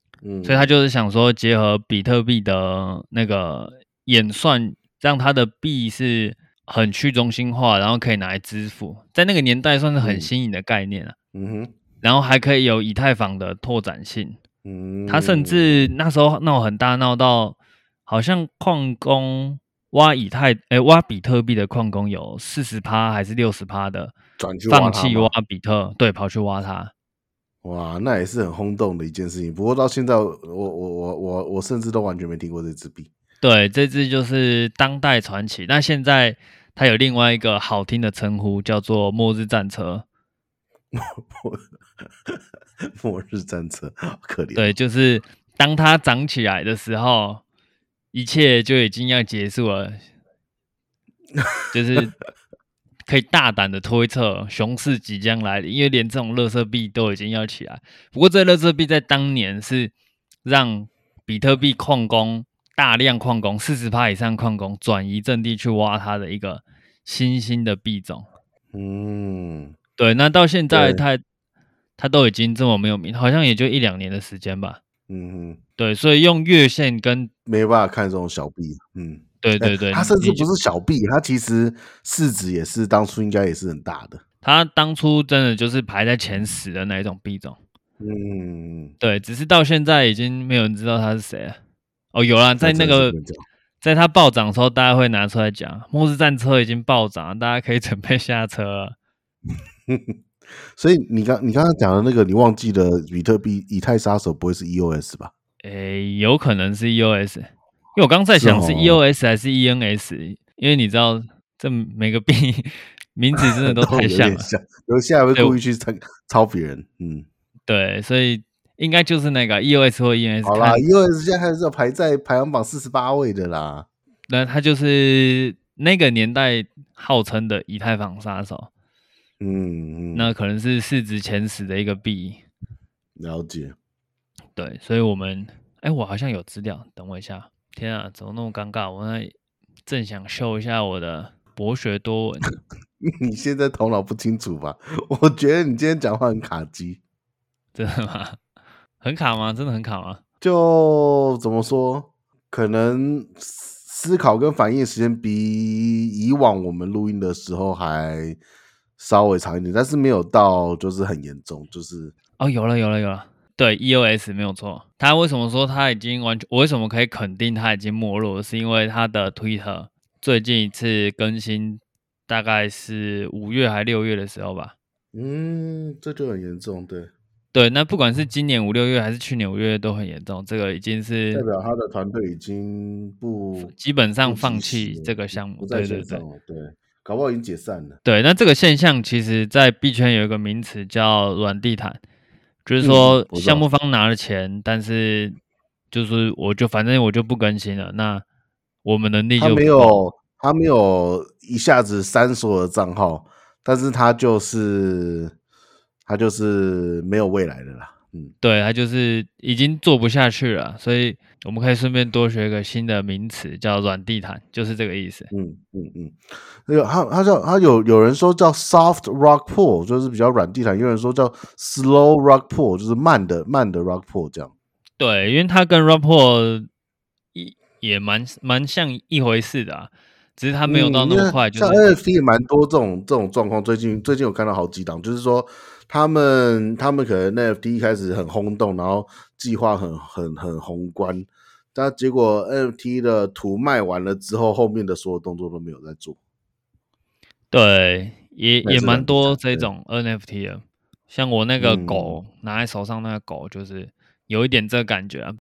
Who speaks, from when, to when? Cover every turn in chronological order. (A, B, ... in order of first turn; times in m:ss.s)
0:00.2-0:00.7 A
0:00.4-0:11.2 B
0:10.0-0:10.3 A
0:11.3-0:11.7 A
0:12.0-0:14.4 B
0:14.6-0:15.9 A
0:15.1-0:17.6 B
0:18.1-0:24.1 B
0:24.4-0:25.3 A
0:24.7-0:26.9 B
0:27.6-0:33.1 A
0:33.4-0:40.0 B
0:40.9-0:41.6 A
0:43.0-0:44.8 A
0:44.6-0:47.4 B
0:48.1-0:50.0 B
0:51.7-0:52.1 B
0:53.1-0:59.9 B
1:00.4-1:08.3 B
1:08.7-1:09.8 A
1:10.0-1:11.2 B
1:10.7-1:11.0 A
1:12.0-1:14.8 B
1:15.1-1:15.6 A
1:15.8-1:17.3 B
1:17.5-1:24.2 A
1:19.4-1:20.5 B
1:24.4-1:27.6 B
1:28.0-1:28.9 A
1:29.0-1:31.6 B
1:32.1-1:33.2 B
1:32.6-1:33.4 A
1:33.8-1:39.0 B
1:39.9-1:40.1 A
1:40.8-1:45.3 A
1:45.6-1:54.5 B
1:48.4-1:49.0 A
1:53.4-1:57.3 A
1:57.7-2:00.8 B
2:00.4-2:03.8 A
2:04.3-2:08.7 B
2:09.4-2:10.3 A
2:10.1-2:12.4 B
2:13.2-2:13.7 A
2:14.6-2:19.3 B
2:19.9-2:22.6 B
2:23.0-2:27.0 A
2:27.8-2:28.4 B
2:29.0-2:30.2 B
2:30.4-2:38.4 A
2:39.0-2:42.1 A
2:42.4-2:54.7 B
2:55.1-2:57.1 A
2:57.5-3:01.5 B
3:01.3-3:03.7 A
3:03.6-3:06.2 B
3:04.2-3:08.0 A
3:08.0-3:12.0 B
3:12.7-3:15.4 B
3:12.8-3:13.6 A
3:15.9-3:18.2 B
3:18.8-3:20.0 B
3:19.4-3:25.3 A
3:26.1-3:28.3 A
3:28.4-3:35.3 B
3:35.3-3:44.5 A
3:45.0-3:46.7 B
3:47.3-3:52.0 B
3:50.7-4:06.2 A
4:07.5-4:15.4 B
4:08.6-4:09.7 A
4:11.6-4:12.2 A